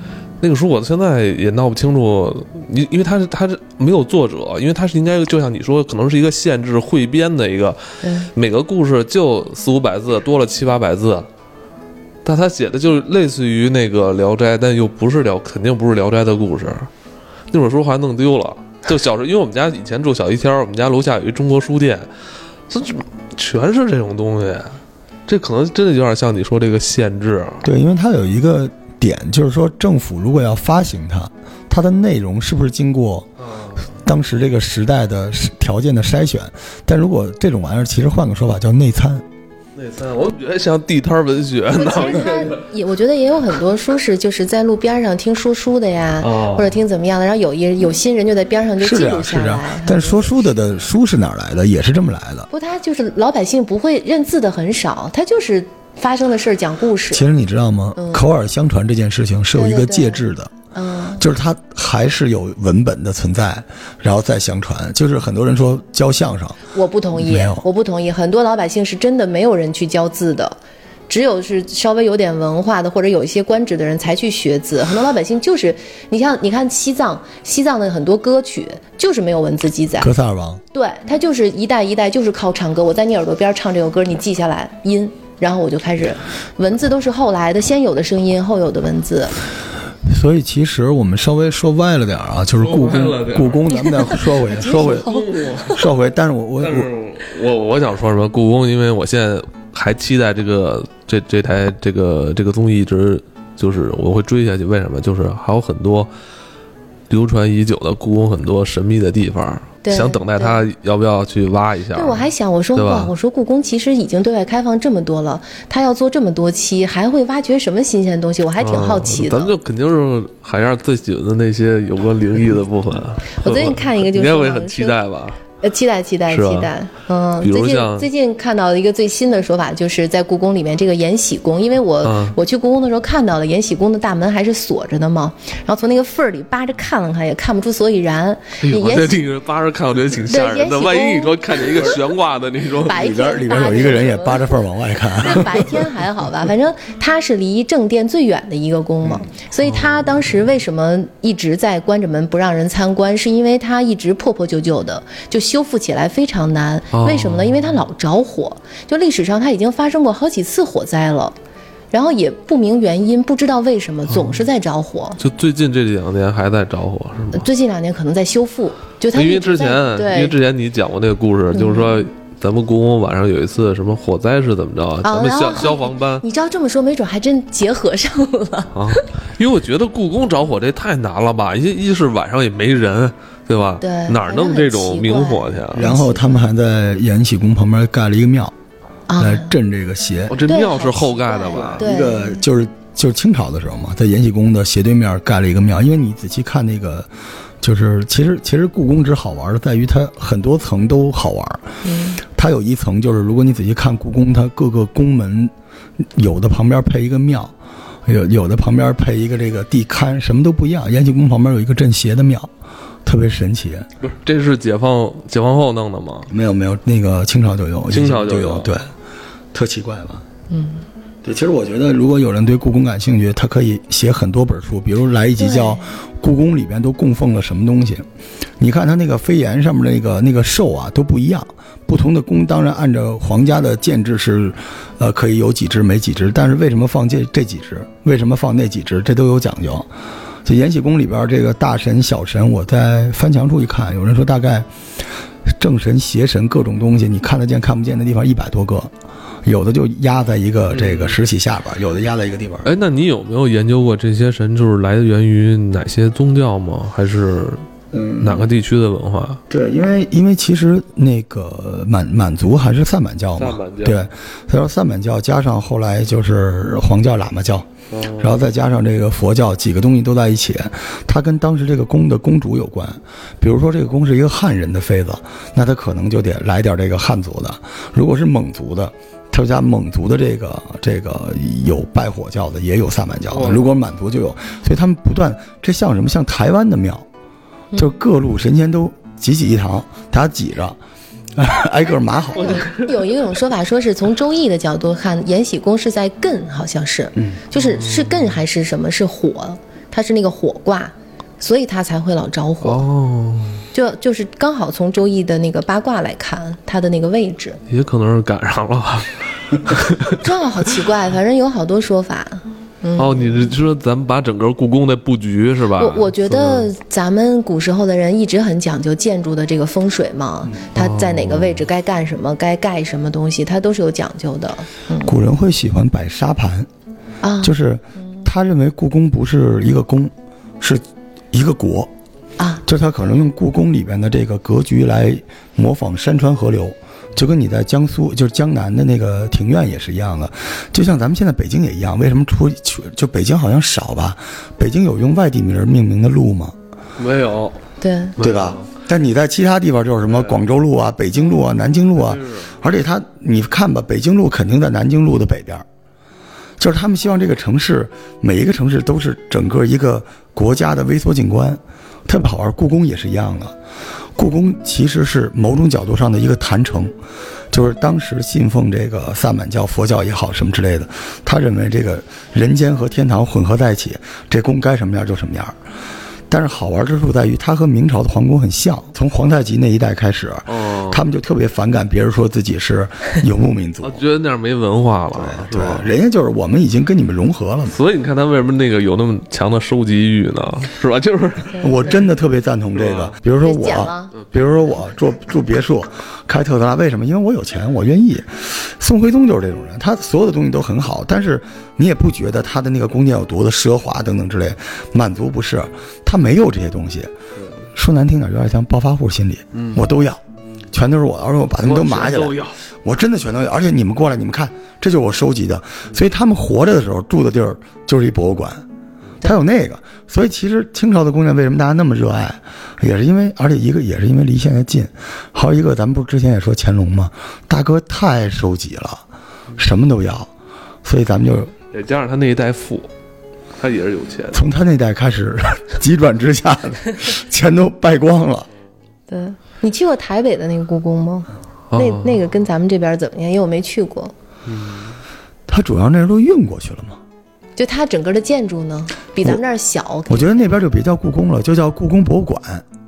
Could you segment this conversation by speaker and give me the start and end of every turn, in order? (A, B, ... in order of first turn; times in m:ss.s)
0:00.4-0:11.3 A
0:08.0-0:08.3 B
0:12.2-0:16.9 A
0:17.5-0:22.1 A
0:22.7-0:27.7 A
0:27.6-0:33.3 C
0:33.4-0:33.9 A
0:33.9-0:39.2 C
0:39.8-0:42.6 A
0:41.7-0:50.4 B
0:46.2-0:46.8 A
0:48.8-0:52.5 C
0:52.5-0:57.2 B
0:57.1-1:00.5 C
0:58.0-0:58.2 B
0:59.5-1:01.2 B
1:01.2-1:06.6 C
1:06.7-1:10.6 B
1:07.1-1:07.6 C
1:11.1-1:20.1 B
1:20.0-1:20.6 C
1:20.7-1:29.3 B
1:30.1-1:35.1 C
1:32.6-1:35.8 A
1:33.7-1:35.8 B
1:35.7-1:36.9 C
1:36.6-1:46.1 A
1:47.1-1:53.1 A
1:49.8-1:50.6 B
1:51.9-1:59.5 B
1:58.6-2:05.4 A
2:03.4-2:05.0 B
2:05.6-2:19.2 B
2:06.3-2:06.7 A
2:07.4-2:08.1 A
2:12.0-2:12.4 A
2:18.6-2:23.0 A
2:20.3-2:22.0 B
2:22.8-2:24.6 B
2:22.9-2:25.6 C
2:25.2-2:41.4 B
2:29.6-2:30.1 A
2:36.9-2:37.8 A
2:41.9-2:45.2 B
2:44.1-2:44.4 A
2:45.2-2:47.5 A
2:47.3-2:50.3 B
2:49.1-2:56.2 A
2:51.5-2:52.0 B
2:55.0-2:59.1 B
2:58.7-3:05.9 A
3:03.8-3:06.4 B
3:05.7-3:08.5 C
3:09.1-3:09.5 B
3:09.2-3:10.4 C
3:10.3-3:11.8 A
3:10.4-3:12.4 B
3:11.8-3:17.1 C
3:17.6-3:27.5 C
3:21.8-3:22.2 B
3:28.0-3:32.5 C
3:33.0-3:33.9 C
3:34.0-3:36.3 A
3:36.3-3:38.9 C
3:37.9-3:38.7 A
3:39.5-3:40.2 C
3:40.5-3:40.8 B
3:41.2-3:48.0 C
3:45.4-3:45.9 B
3:48.6-3:59.9 C
4:00.4-4:04.7 C
4:05.5-4:08.9 C
4:09.4-4:12.7 C
4:10.7-4:11.2 A
4:12.6-4:17.6 A
4:17.9-4:18.5 C
4:18.2-4:19.4 A
4:19.5-4:47.0 C
4:23.4-4:24.0 A
4:27.9-4:28.4 A
4:43.3-4:43.7 A
4:47.8-4:50.8 C
4:51.4-4:52.6 C
4:52.3-5:02.9 B
4:52.5-4:52.9 A
4:57.2-4:57.4 C
4:57.6-4:58.4 A
5:02.6-5:03.6 A
5:03.7-5:07.6 B
5:07.7-5:10.3 A
5:10.0-5:13.5 B
5:13.0-5:16.7 A
5:15.8-5:25.1 B
5:20.7-5:21.6 A
5:25.0-5:26.7 C
5:27.2-5:27.5 B
5:27.4-5:31.9 C
5:32.4-5:32.6 B
5:32.6-5:46.5 C
5:47.0-5:47.6 A
5:47.8-5:48.2 B
5:48.2-5:48.7 A
5:48.2-5:55.6 C
5:50.1-5:50.4 A
5:52.0-5:52.5 A
5:56.6-6:03.5 C
6:04.2-6:06.9 C
6:07.5-6:15.6 C
6:16.3-6:24.0 C
6:20.5-6:21.0 A
6:23.8-6:25.9 A
6:25.1-6:27.8 C
6:27.7-6:31.7 A
6:31.6-6:47.1 C
6:32.8-6:33.1 A
6:33.4-6:34.1 B
6:47.7-6:58.6 C
6:49.5-6:49.8 A
6:51.6-6:52.6 A
6:59.2-7:09.0 C
7:09.6-7:10.3 C
7:10.8-7:11.5 C
7:11.7-7:12.9 A
7:13.6-7:14.4 A
7:14.3-7:18.5 C
7:19.1-7:24.1 B
7:21.7-7:22.2 A
7:24.5-7:24.9 A
7:25.5-7:27.0 C
7:27.6-7:30.6 B
7:30.1-7:32.6 C